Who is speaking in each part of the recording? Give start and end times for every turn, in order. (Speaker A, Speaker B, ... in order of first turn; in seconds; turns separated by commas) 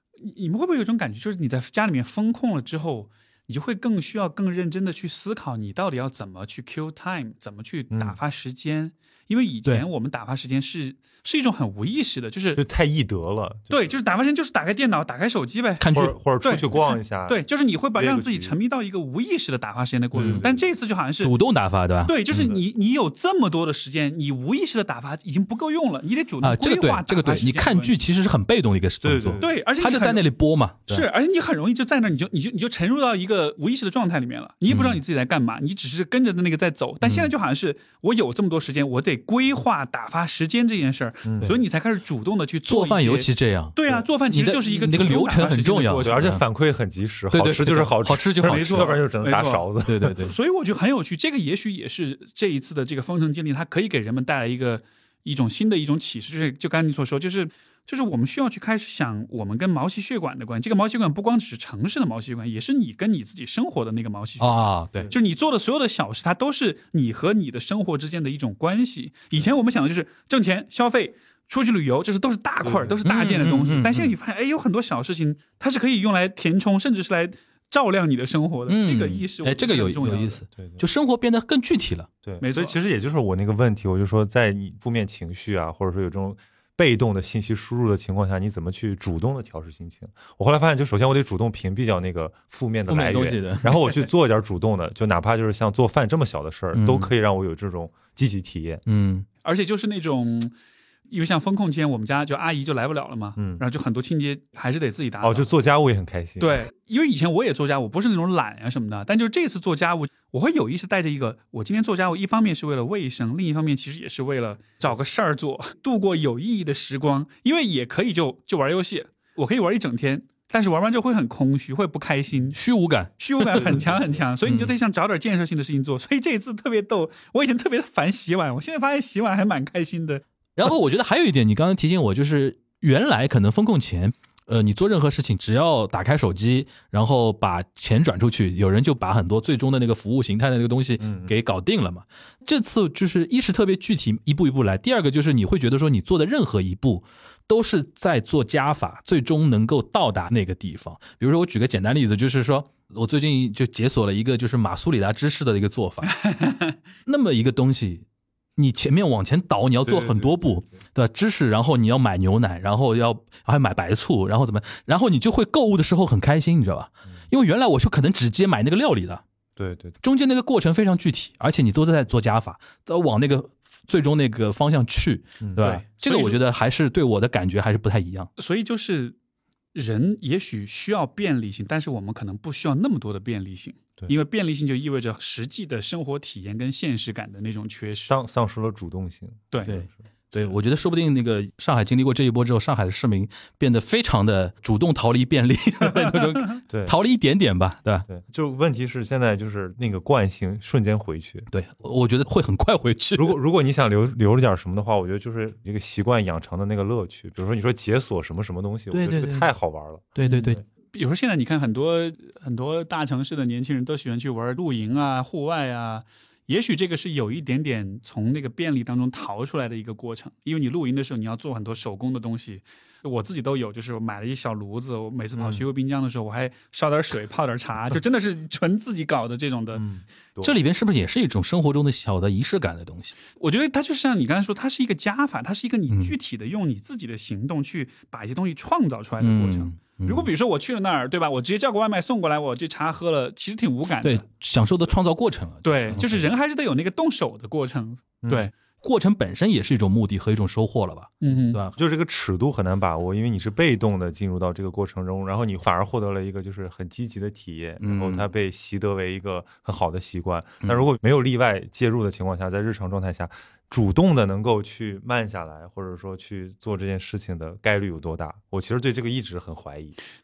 Speaker A: 0.2-12.6, Speaker B: 7.9-8.2, Speaker B: 12.6-13.9, Speaker A: 13.7-21.3, Speaker C: 15.8-16.2, Speaker B: 15.9-17.4, Speaker B: 17.9-18.6, Speaker B: 20.1-20.6, Speaker C: 20.2-20.4, Speaker C: 21.2-22.2, Speaker A: 22.0-27.9, Speaker B: 22.3-22.6, Speaker C: 26.4-31.0, Speaker B: 29.0-29.5, Speaker A: 29.4-30.3, Speaker A: 30.9-46.3, Speaker C: 34.7-35.0, Speaker B: 41.2-41.5, Speaker C: 42.7-46.4, Speaker B: 46.0-50.2, Speaker C: 47.3-49.0, Speaker A: 48.4-49.7, Speaker C: 49.9-50.3, Speaker A: 50.2-80.4, Speaker C: 64.4-65.1, Speaker B: 72.6-73.0, Speaker C: 73.0-74.1, Speaker C: 78.7-82.1, Speaker B: 80.6-80.8, Speaker B: 82.2-98.8, Speaker A: 82.4-82.7, Speaker C: 92.9-93.8, Speaker C: 96.7-97.1, Speaker C: 98.8-99.2, Speaker A: 99.4-100.5, Speaker A: 101.1-105.5, Speaker B: 103.4-103.6, Speaker B: 105.2-106.6, Speaker A: 106.4-122.6, Speaker C: 122.5-123.8, Speaker A: 123.2-130.2, Speaker B: 123.6-124.2, Speaker C: 124.4-124.7, Speaker C: 130.6-156.2, Speaker B: 141.0-141.3, Speaker A: 156.1-156.8, Speaker C: 157.1-158.0, Speaker C: 158.6-169.2, Speaker B: 159.8-160.5, Speaker B: 169.6-169.9, Speaker C: 170.0-178.3, Speaker B: 175.4-175.7, Speaker A: 175.6-176.4, Speaker A: 178.4-179.2, Speaker A: 179.7-188.1, Speaker B: 188.1-190.5, Speaker C: 189.7-198.1, Speaker B: 196.7-196.9, Speaker B: 198.1-201.5, Speaker C: 201.5-203.4, Speaker B: 203.2-210.6, Speaker C: 208.9-209.5, Speaker C: 210.2-210.6, Speaker A: 210.2-229.8, Speaker B: 225.3-225.6, Speaker B: 229.8-230.6, Speaker C: 230.4-233.2, Speaker A: 233.4-244.2, Speaker C: 239.2-240.3, Speaker C: 244.0-246.1, Speaker A: 245.6-248.5, Speaker B: 245.9-246.2, Speaker B: 248.2-248.5, Speaker C: 248.8-251.8, Speaker A: 251.2-251.6, Speaker B: 251.7-270.0, Speaker C: 257.8-258.2